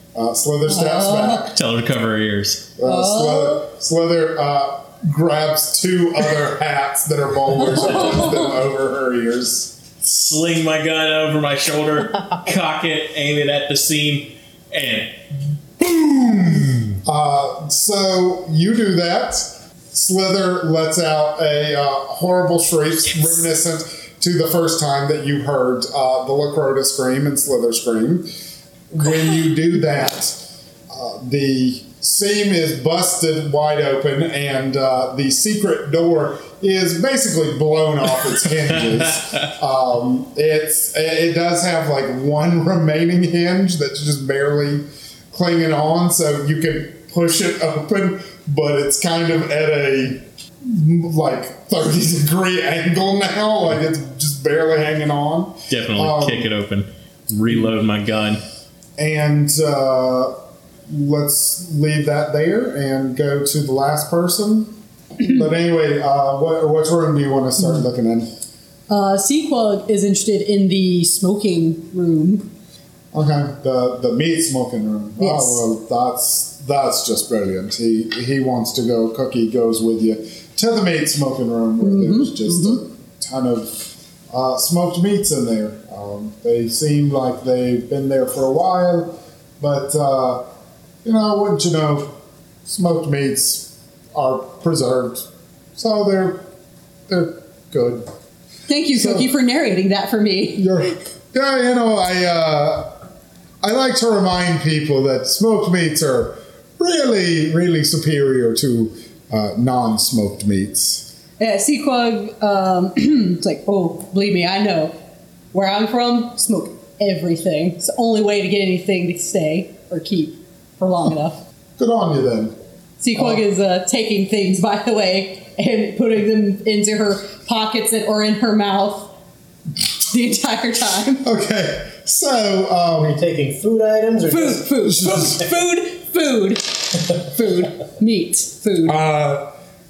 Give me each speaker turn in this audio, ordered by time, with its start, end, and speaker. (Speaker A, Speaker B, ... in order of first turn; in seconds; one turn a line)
Speaker A: 0.1-1.6
Speaker B: 0.7-1.4
Speaker C: 1.4-2.6
Speaker A: 2.8-9.7
Speaker B: 2.8-3.6
Speaker B: 7.9-8.4
Speaker C: 10.0-15.2
Speaker C: 15.8-16.9
Speaker A: 17.0-28.3
Speaker A: 28.9-56.5
Speaker C: 55.7-58.4
Speaker A: 59.0-60.4
Speaker A: 60.9-68.3
Speaker B: 68.9-72.5
Speaker A: 73.1-90.5
Speaker B: 75.2-75.6
Speaker B: 81.8-82.8
Speaker A: 91.0-92.1
Speaker A: 92.7-96.4
Speaker A: 97.1-98.1
Speaker B: 98.7-100.7
Speaker A: 98.9-99.3
Speaker A: 100.6-102.9
Speaker A: 103.6-111.1
Speaker B: 111.4-114.9
Speaker B: 115.5-121.4
Speaker A: 121.8-122.5
Speaker B: 123.0-129.1
Speaker A: 123.1-123.4
Speaker B: 130.0-131.2
Speaker A: 131.2-133.2
Speaker D: 133.0-135.5
Speaker B: 134.3-139.0
Speaker A: 138.8-139.5